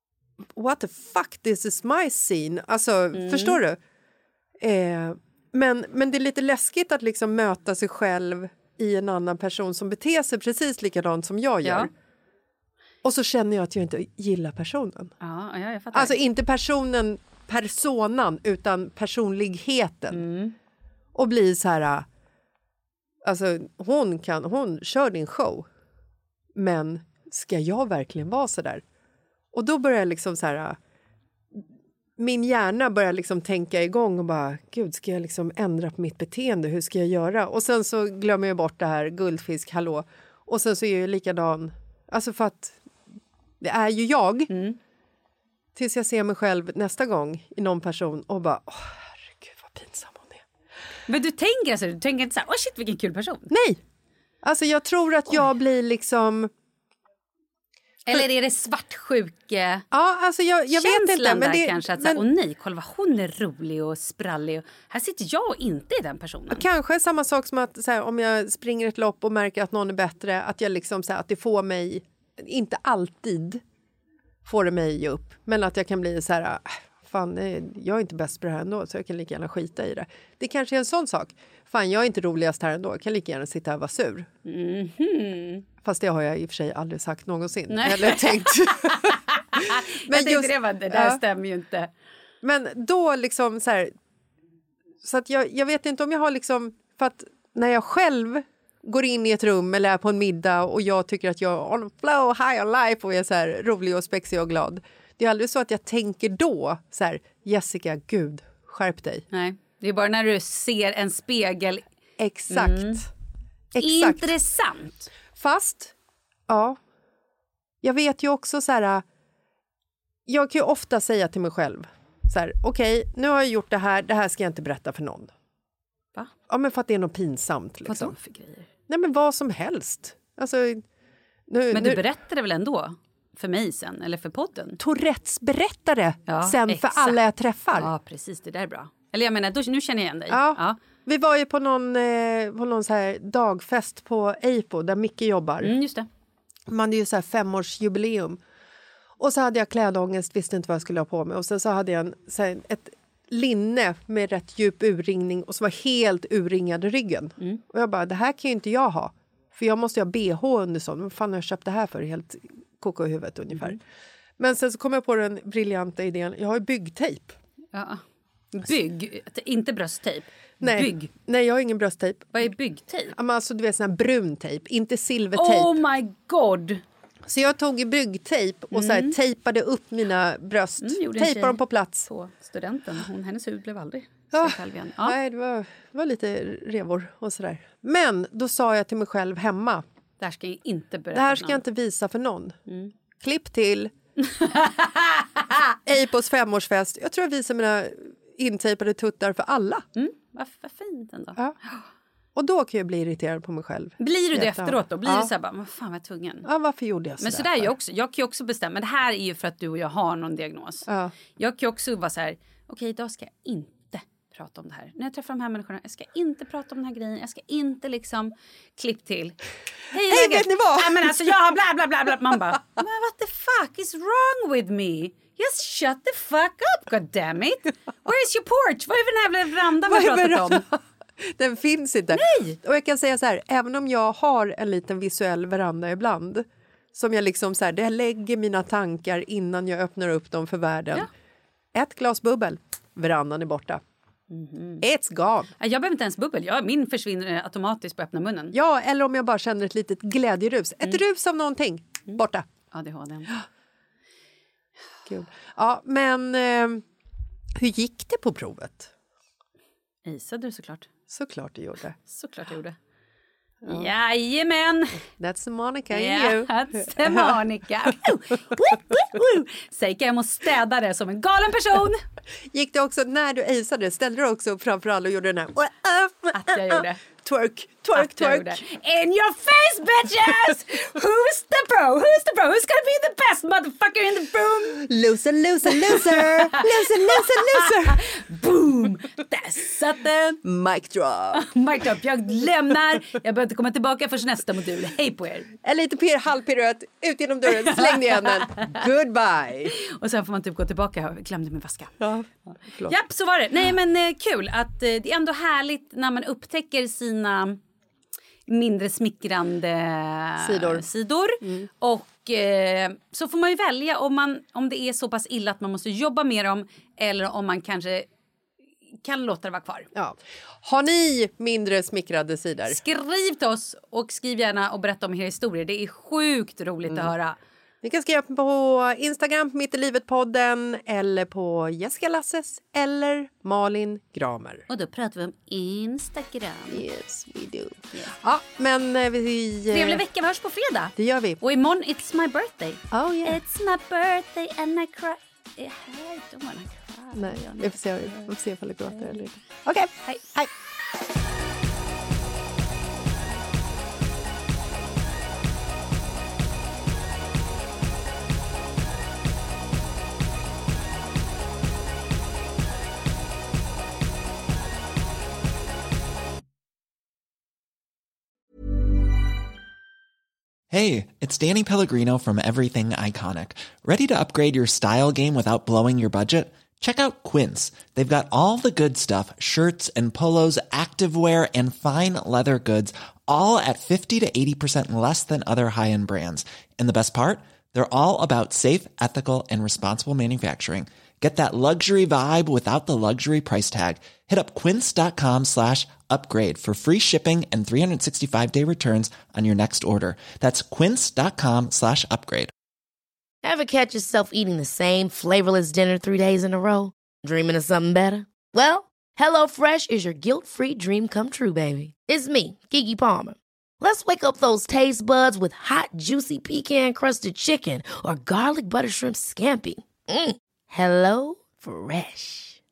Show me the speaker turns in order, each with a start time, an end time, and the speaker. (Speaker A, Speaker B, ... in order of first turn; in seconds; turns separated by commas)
Speaker A: 0.6-3.8, Speaker B: 3.1-3.6, Speaker A: 4.6-11.9, Speaker B: 11.6-11.9, Speaker A: 13.0-15.1, Speaker B: 15.2-16.1, Speaker A: 15.9-20.2, Speaker B: 20.1-20.5, Speaker A: 21.1-22.1, Speaker A: 23.2-25.7, Speaker A: 26.5-28.8, Speaker A: 29.5-30.8, Speaker A: 32.2-42.8, Speaker A: 43.6-44.5, Speaker B: 44.5-44.8, Speaker A: 45.8-50.4, Speaker B: 51.1-53.5, Speaker A: 53.5-53.8, Speaker A: 54.4-56.5, Speaker B: 58.1-59.8, Speaker A: 59.9-62.2, Speaker B: 60.7-66.6, Speaker A: 66.5-73.6, Speaker A: 74.4-84.3, Speaker B: 84.4-85.6, Speaker A: 85.8-89.2, Speaker B: 87.7-91.9, Speaker A: 90.0-91.2, Speaker A: 92.4-93.9, Speaker A: 95.0-109.2, Speaker B: 109.3-111.8, Speaker A: 112.2-113.1, Speaker B: 112.5-113.0, Speaker A: 113.7-114.3, Speaker B: 113.8-115.1, Speaker A: 115.3-115.9, Speaker A: 116.5-116.8, Speaker A: 117.8-119.0, Speaker A: 120.3-125.3, Speaker A: 126.5-128.2, Speaker B: 127.8-128.7, Speaker A: 128.9-130.8, Speaker A: 131.5-132.0, Speaker B: 131.7-134.8, Speaker A: 134.8-137.9, Speaker B: 136.3-140.8, Speaker A: 140.3-145.7, Speaker B: 145.6-146.1, Speaker A: 146.7-148.4, Speaker A: 149.2-163.8, Speaker A: 164.4-167.3, Speaker B: 167.7-168.0, Speaker B: 168.5-171.1, Speaker A: 170.6-172.5, Speaker B: 172.3-173.1, Speaker A: 173.1-175.8, Speaker B: 175.3-176.8, Speaker A: 177.3-182.1, Speaker B: 178.7-179.2, Speaker B: 180.8-185.1, Speaker A: 184.3-189.8, Speaker B: 190.2-191.6, Speaker A: 191.1-192.6, Speaker B: 192.7-192.9, Speaker A: 193.2-193.9, Speaker B: 194.4-195.2, Speaker A: 195.7-199.8, Speaker B: 199.9-201.8, Speaker A: 202.3-205.3, Speaker B: 204.0-206.5, Speaker A: 206.4-207.7, Speaker B: 207.2-219.4, Speaker A: 210.9-211.1, Speaker B: 219.9-230.6, Speaker A: 220.1-221.2, Speaker A: 229.9-241.1, Speaker B: 232.1-232.6, Speaker A: 241.7-243.8, Speaker B: 244.3-244.8, Speaker A: 244.8-245.5, Speaker B: 245.6-248.5, Speaker A: 248.5-252.4, Speaker B: 252.7-253.3, Speaker A: 255.1-256.8, Speaker A: 257.6-258.9, Speaker B: 260.0-260.9, Speaker A: 261.1-261.9, Speaker B: 262.1-262.8, Speaker B: 263.6-265.0, Speaker A: 265.2-267.2, Speaker B: 265.9-272.0, Speaker A: 272.5-278.6, Speaker B: 276.3-277.0, Speaker B: 277.9-284.9, Speaker A: 284.8-288.0, Speaker B: 285.9-286.2, Speaker B: 287.1-290.4, Speaker A: 290.4-291.4, Speaker B: 291.4-295.5, Speaker A: 295.6-299.7, Speaker B: 297.6-298.2, Speaker B: 299.8-301.9, Speaker A: 302.0-302.9, Speaker B: 302.9-307.6, Speaker B: 308.5-318.1, Speaker A: 310.4-310.9, Speaker A: 311.4-311.7, Speaker B: 319.0-319.9, Speaker A: 319.9-322.8, Speaker B: 322.6-327.4, Speaker A: 327.8-334.6, Speaker B: 334.7-336.8, Speaker A: 336.7-340.0, Speaker B: 339.7-348.3, Speaker A: 340.9-341.4, Speaker A: 342.9-343.4, Speaker A: 347.1-350.5, Speaker B: 348.9-349.3, Speaker C: 370.7-402.5, Speaker D: 403.4-422.5